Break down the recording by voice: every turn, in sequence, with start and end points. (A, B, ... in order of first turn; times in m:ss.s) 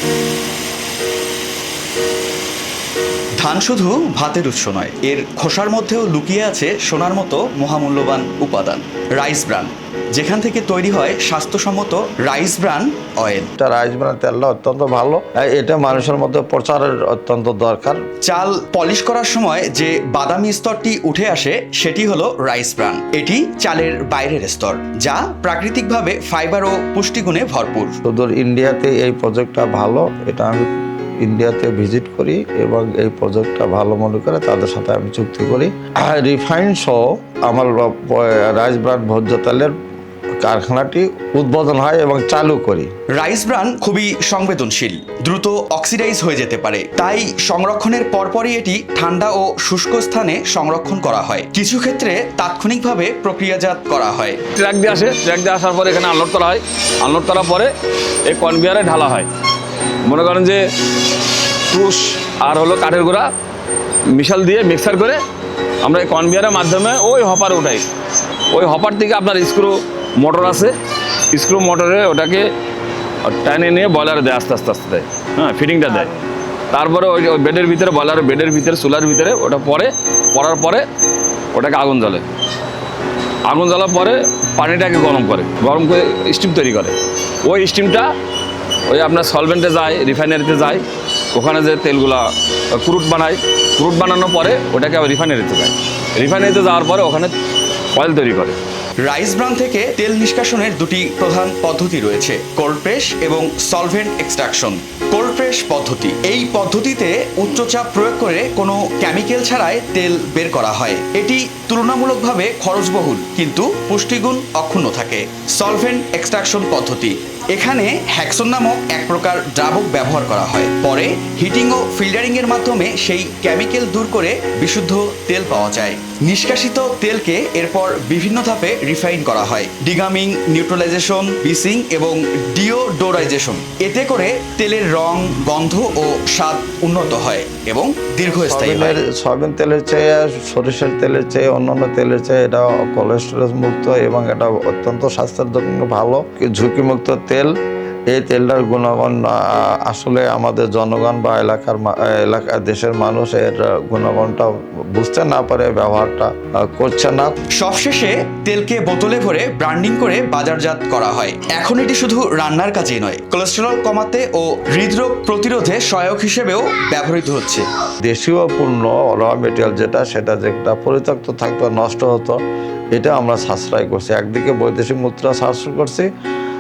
0:03.4-0:13.5 A
0:13.6-0:18.0 B
0:18.2-0:28.0 A
0:28.0-0:30.7 B
0:31.2-0:39.7 B
0:40.4-0:42.9 B
0:43.1-0:54.4 A
0:54.5-0:57.7 C
0:58.3-0:59.3 C
1:00.0-1:00.6 C
1:01.7-1:03.3 C
1:04.1-1:05.2 C
1:05.8-1:07.8 C
1:08.5-1:10.7 C
1:11.3-1:12.5 C
1:13.2-1:16.2 C
1:16.7-1:20.8 C
1:21.5-1:22.2 C
1:23.5-1:26.9 C
1:27.4-1:28.1 C
1:28.9-1:37.3 C
1:38.0-1:38.6 C
1:39.0-2:19.0 A
2:18.4-2:27.5 B
2:28.1-2:37.4 B
2:37.5-2:47.7 A
2:48.1-2:52.4 B
2:52.9-2:56.1 B